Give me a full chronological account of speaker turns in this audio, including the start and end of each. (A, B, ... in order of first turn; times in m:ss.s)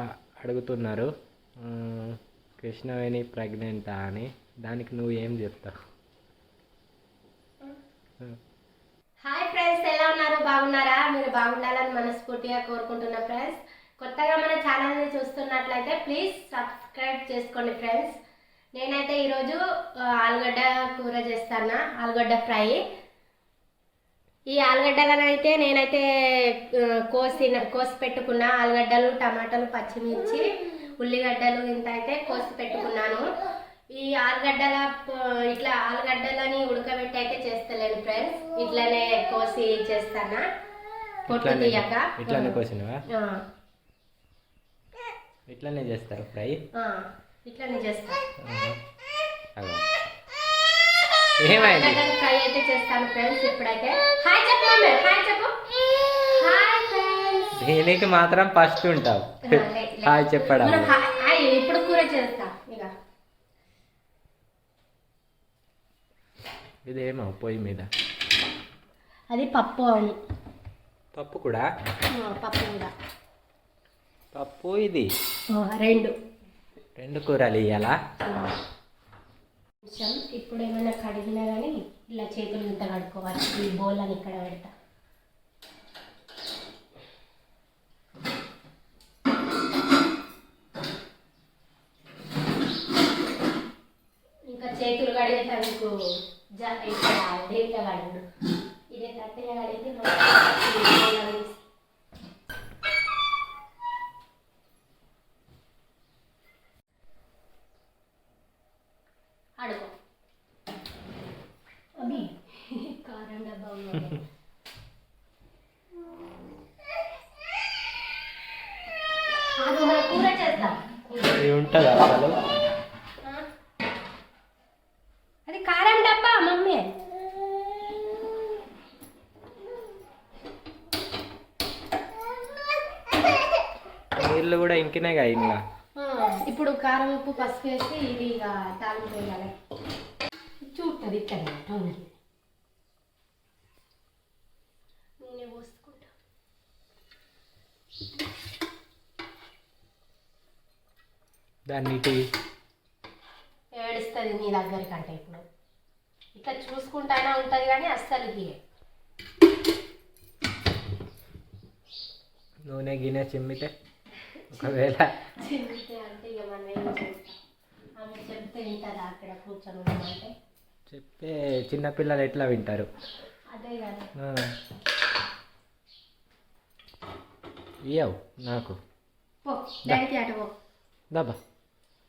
0:00.4-0:01.1 A
0:01.6-0:05.7 A
0:09.2-0:18.2 B
0:18.7-0:22.8 B
0:24.5-0:30.4 B
0:31.0-0:33.3 B
0:33.9-0:40.5 B
0:41.3-0:43.4 B
0:41.3-0:43.0 A
0:45.5-0:46.6 A
0:46.7-0:48.2 B
0:48.4-0:48.8 A
0:49.6-0:49.9 A
0:51.4-0:52.0 A
0:51.5-0:57.5 B
0:57.6-1:01.0 A
0:59.4-1:02.9 B
1:06.9-1:07.9 A
1:09.3-1:10.2 B
1:11.2-1:11.7 A
1:12.1-1:12.9 B
1:14.3-1:15.1 A
1:15.5-1:16.1 B
1:17.0-1:18.0 A
1:18.3-1:18.5 B
1:19.8-1:24.7 B
1:34.5-1:35.9 B
1:36.6-1:38.2 B
1:38.9-1:41.6 B
1:49.6-1:49.9 B
1:52.0-1:54.2 B
1:59.6-2:01.4 B
2:01.2-2:02.4 A
2:03.2-2:03.5 B
2:05.5-2:07.0 B
2:14.2-2:15.6 A
2:16.0-2:19.5 B
2:20.6-2:22.2 B
2:25.2-2:26.1 B
2:31.7-2:32.2 A
2:33.8-2:35.4 B
2:36.4-2:38.6 B
2:42.7-2:43.7 A
2:44.3-2:47.4 B
2:44.5-2:45.1 A
2:48.0-2:50.3 B
2:50.9-2:52.9 A
2:53.5-2:54.1 B
2:54.2-2:54.5 A
2:57.9-2:58.8 A
2:59.5-3:00.6 B
3:01.1-3:01.4 A